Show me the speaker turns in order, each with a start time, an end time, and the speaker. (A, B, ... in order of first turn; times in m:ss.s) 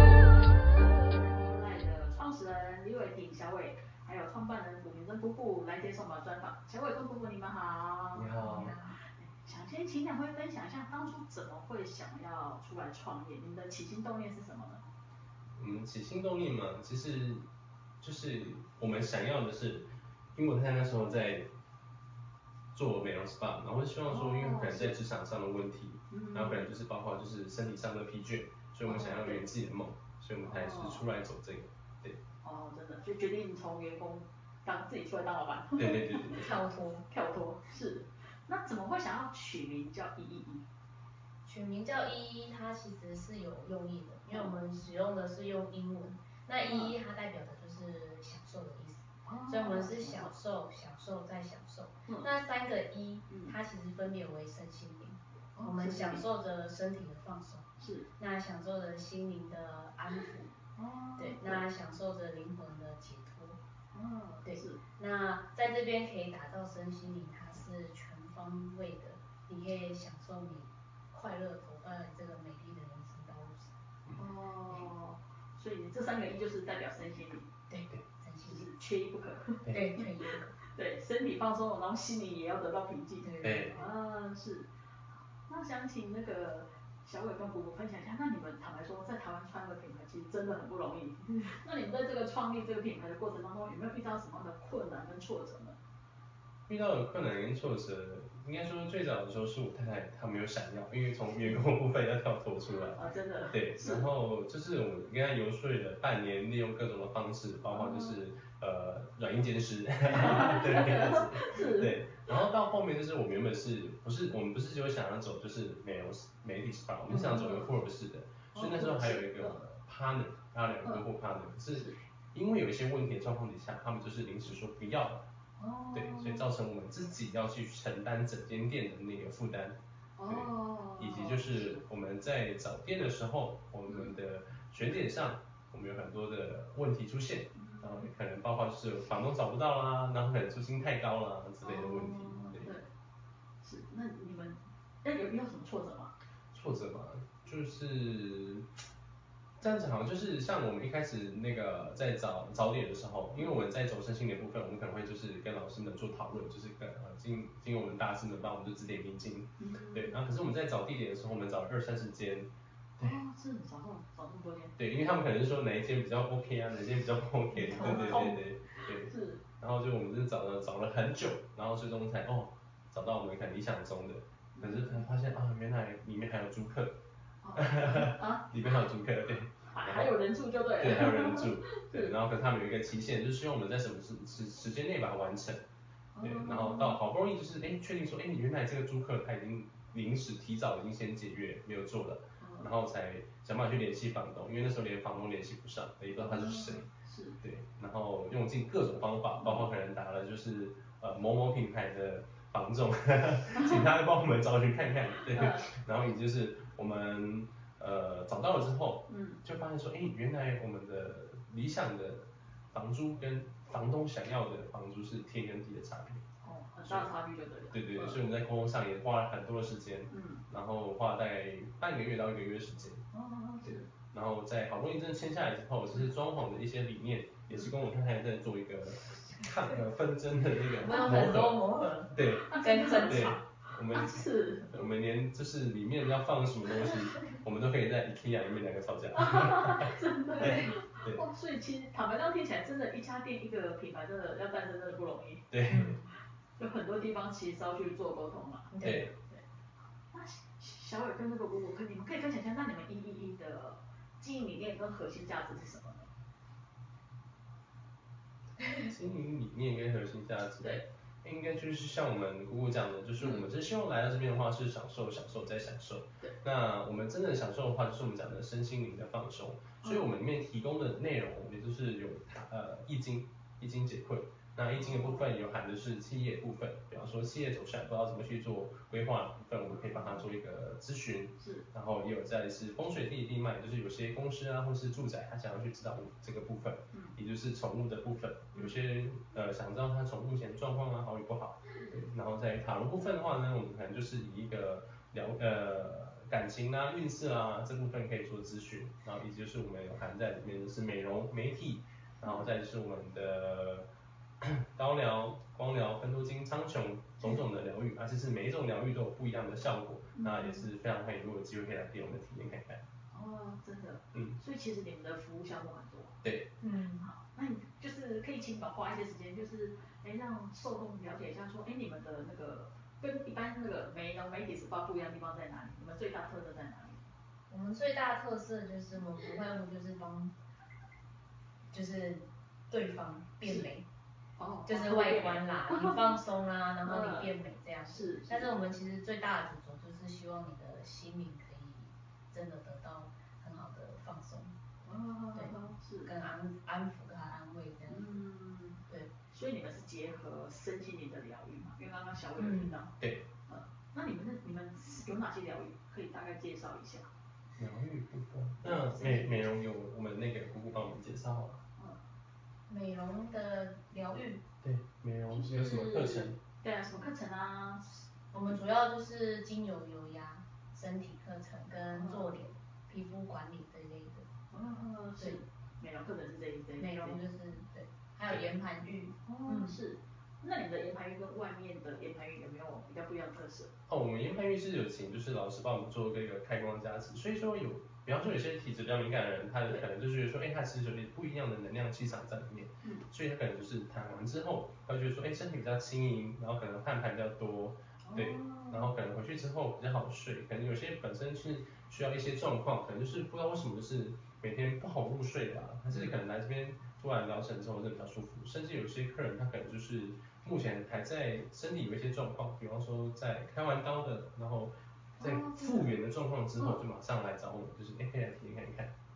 0:01.0-0:08.6 A
0:08.1-0:08.7 B
0:08.4-0:09.0 C
0:09.2-0:14.8 A
0:15.6-0:17.4 B
0:18.0-0:21.5 B
0:22.7-0:32.2 B
0:24.0-0:25.0 A
0:26.1-0:26.7 A
0:28.8-0:29.5 A
0:30.4-0:31.1 A
0:32.4-0:36.4 A
0:35.8-0:36.5 B
0:36.3-0:37.0 C
0:37.1-0:40.6 A
0:41.4-1:00.5 C
0:44.3-0:44.6 A
0:46.6-0:46.9 A
0:49.2-0:50.3 A
0:52.1-0:52.3 A
0:53.3-0:53.6 A
0:55.5-0:56.2 A
0:57.8-0:58.1 A
1:00.8-1:01.6 A
1:01.2-1:03.6 C
1:03.9-1:04.8 A
1:04.4-1:13.7 C
1:14.2-1:17.5 A
1:17.7-1:18.7 C
1:18.4-1:20.1 A
1:19.6-1:19.9 B
1:19.7-1:20.5 C
1:20.7-1:24.7 A
1:23.2-1:23.8 C
1:23.4-1:23.8 B
1:25.5-1:35.8 A
1:36.7-2:05.2 B
1:42.9-1:44.1 A
1:47.7-1:48.2 A
1:50.1-1:52.0 A
1:57.1-1:57.7 A
1:58.5-1:59.6 A
2:05.6-2:06.5 A
2:05.9-2:22.8 B
2:10.2-2:11.8 A
2:13.8-2:14.2 A
2:17.5-2:18.1 A
2:21.6-2:22.9 A
2:23.6-2:26.1 A
2:26.5-2:28.7 B
2:29.6-2:43.2 B
2:39.6-2:40.2 A
2:43.0-2:44.8 A
2:44.8-2:56.9 B
2:47.5-2:48.4 A
2:49.0-2:49.4 A
2:54.5-2:55.0 A
2:57.4-2:58.5 A
2:57.5-3:00.2 B
2:59.6-3:02.1 A
3:00.8-3:05.6 B
3:06.1-3:07.0 A
3:06.2-3:16.9 B
3:12.4-3:12.7 A
3:16.1-3:17.4 A
3:17.4-3:36.2 B
3:19.4-3:19.7 A
3:25.3-3:25.7 A
3:29.1-3:29.4 A
3:36.4-3:38.2 A
3:36.8-3:37.1 B
3:37.7-3:43.0 B
3:40.1-3:40.4 A
3:43.1-3:43.9 A
3:43.6-4:01.2 B
3:47.5-3:47.7 A
3:50.8-3:53.3 C
3:52.5-3:54.7 A
3:59.1-4:05.5 A
4:00.3-4:00.7 C
4:05.5-4:06.0 B
4:05.7-4:06.0 C
4:06.6-4:08.7 A
4:08.7-4:09.1 C
4:08.8-4:09.1 B
4:10.1-4:16.1 A
4:18.8-5:03.9 B
4:20.6-4:20.8 A
4:23.2-4:23.5 A
4:29.8-4:30.2 A
4:34.7-4:35.3 A
4:39.7-4:40.2 A
4:41.4-4:41.7 A
4:46.9-4:47.2 A
4:48.5-4:48.8 A
5:02.2-5:02.5 A
5:04.4-5:12.8 B
5:10.1-5:10.7 A
5:13.1-5:16.2 A
5:16.2-5:16.5 B
5:16.6-5:17.1 C
5:17.0-5:27.0 A
5:27.5-5:30.3 C
5:31.7-5:33.8 C
5:33.4-5:33.7 A
5:34.4-5:36.1 A
5:34.6-5:44.5 C
5:36.8-5:37.3 A
5:37.8-5:38.6 A
5:44.8-5:46.1 A
5:45.3-5:48.2 C
5:47.9-5:52.9 A
5:52.4-5:52.8 C
5:53.0-5:53.3 B
5:53.5-5:57.1 A
5:57.6-6:01.6 B
5:58.6-5:59.6 A
6:02.7-6:04.4 C
6:04.6-6:06.4 B
6:05.3-6:07.9 A
6:08.3-6:14.2 C
6:11.8-6:12.3 A
6:14.5-6:17.2 A
6:16.8-6:19.8 C
6:19.2-6:23.7 A
6:23.9-6:58.9 B
6:38.0-6:38.9 A
6:45.9-6:46.2 A
6:55.2-6:56.0 A
6:56.6-6:56.8 A